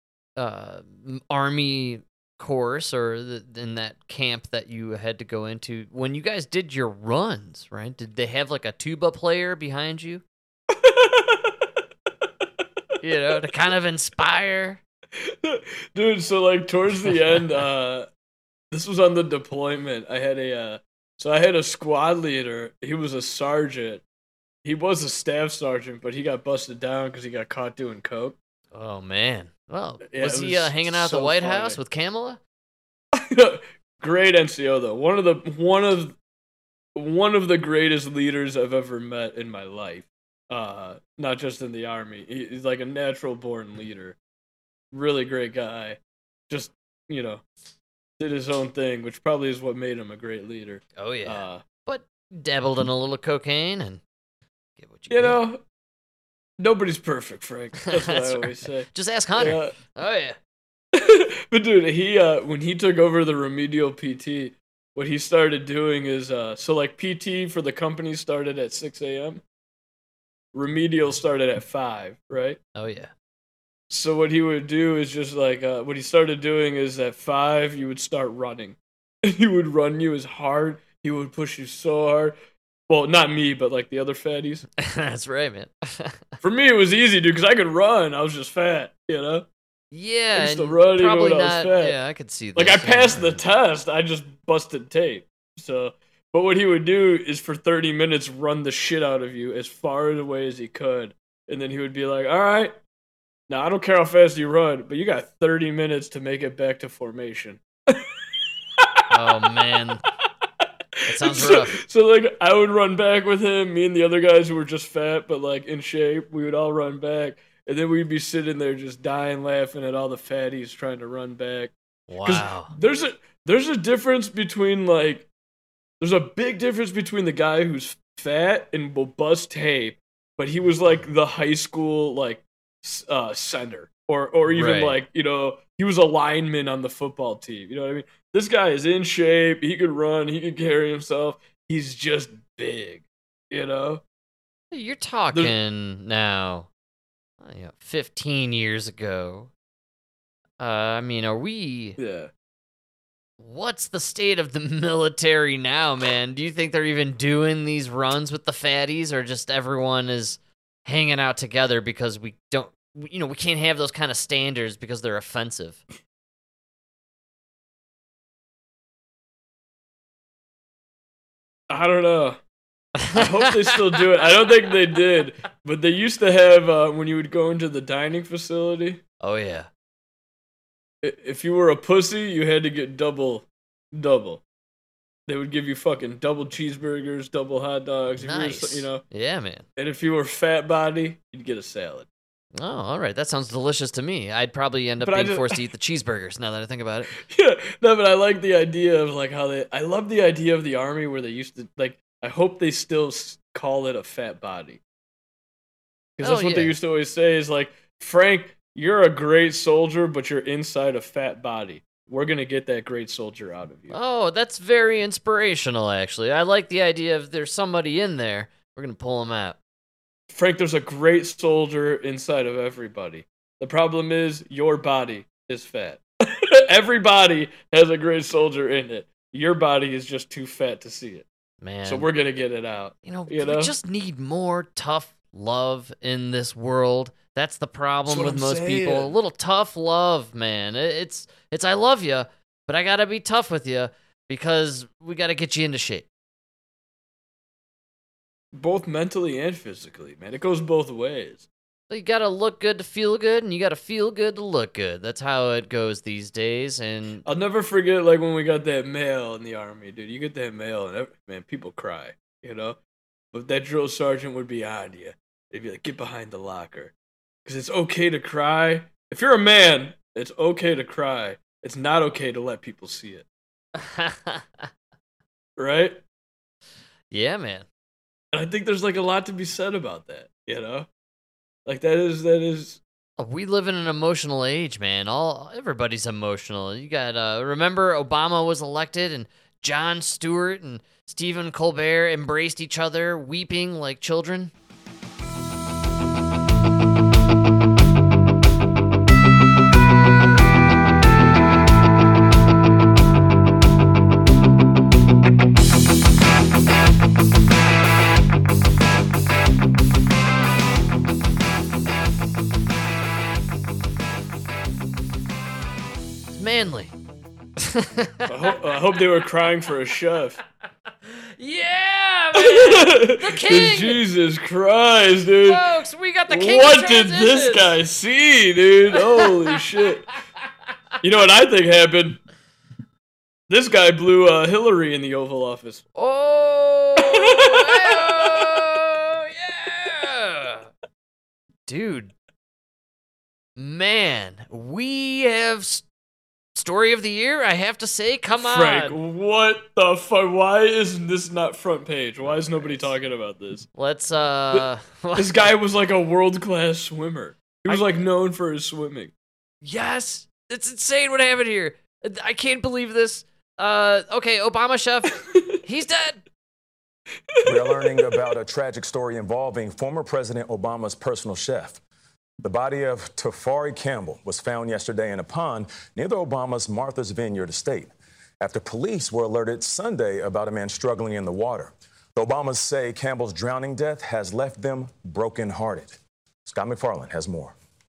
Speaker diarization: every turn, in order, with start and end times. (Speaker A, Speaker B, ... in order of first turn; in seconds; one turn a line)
Speaker A: 0.4-10.2
Speaker B: 10.7-11.7
Speaker A: 13.0-14.8
Speaker B: 15.2-18.1
Speaker B: 18.7-24.0
Speaker B: 24.6-28.4
Speaker A: 28.7-32.4
Speaker B: 30.1-31.8
Speaker B: 33.1-36.1
Speaker B: 36.9-44.1
Speaker B: 44.9-46.0
Speaker B: 46.5-47.4
Speaker B: 48.2-51.6
Speaker A: 51.0-54.0
Speaker A: 54.8-55.4
Speaker B: 55.1-55.6
Speaker B: 56.6-59.7
Speaker A: 58.0-60.4
Speaker B: 60.9-69.4
Speaker B: 70.5-72.6
Speaker A: 72.7-73.1
Speaker B: 73.9-82.3
Speaker B: 82.9-84.6
Speaker A: 84.8-86.2
Speaker B: 86.4-89.5
Speaker A: 89.9-93.4
Speaker B: 90.3-92.0
Speaker B: 92.5-102.7
Speaker B: 103.5-108.1
Speaker A: 109.1-110.0
Speaker A: 111.1-111.8
Speaker B: 111.1-125.3
Speaker A: 122.1-122.7
Speaker B: 126.0-144.0
Speaker A: 134.5-135.0
Speaker A: 144.7-146.7
Speaker A: 147.4-149.5
Speaker A: 150.6-152.0
Speaker B: 152.0-152.3
Speaker A: 153.4-165.8
Speaker B: 171.7-172.4
Speaker B: 173.1-179.0
Speaker A: 179.2-179.7
Speaker B: 181.0-184.4
Speaker B: 185.3-189.0
Speaker A: 188.2-189.6
Speaker B: 189.8-192.1
Speaker A: 192.5-197.1
Speaker B: 195.0-195.6
Speaker B: 197.1-204.8
Speaker B: 206.2-214.0
Speaker A: 206.2-206.8
Speaker A: 213.9-219.6
Speaker B: 220.3-231.2
Speaker A: 231.6-232.1
Speaker B: 231.8-233.7
Speaker A: 233.0-246.1
Speaker B: 238.1-239.1
Speaker B: 248.5-251.5
Speaker A: 251.9-257.2
Speaker B: 257.2-262.8
Speaker B: 263.3-266.9
Speaker B: 267.4-273.2
Speaker A: 273.8-274.7
Speaker B: 275.6-276.0
Speaker A: 277.1-277.6
Speaker B: 278.3-280.9
Speaker B: 281.6-282.8
Speaker A: 283.2-294.5
Speaker A: 316.3-316.9
Speaker A: 317.6-318.3
Speaker B: 318.2-320.4
Speaker A: 321.1-324.0
Speaker B: 322.3-325.6
Speaker A: 325.4-327.7
Speaker B: 326.3-330.1
Speaker B: 331.0-332.2
Speaker B: 333.5-335.8
Speaker A: 335.9-340.7
Speaker B: 337.0-338.5
Speaker A: 341.7-342.1
Speaker A: 343.6-345.8
Speaker A: 346.6-348.9
Speaker B: 348.4-353.7
Speaker A: 352.2-352.9
Speaker A: 353.7-355.5
Speaker B: 354.5-359.1
Speaker A: 359.6-366.2
Speaker B: 365.3-365.5
Speaker B: 367.3-367.7
Speaker C: 367.4-371.8
Speaker C: 372.4-387.5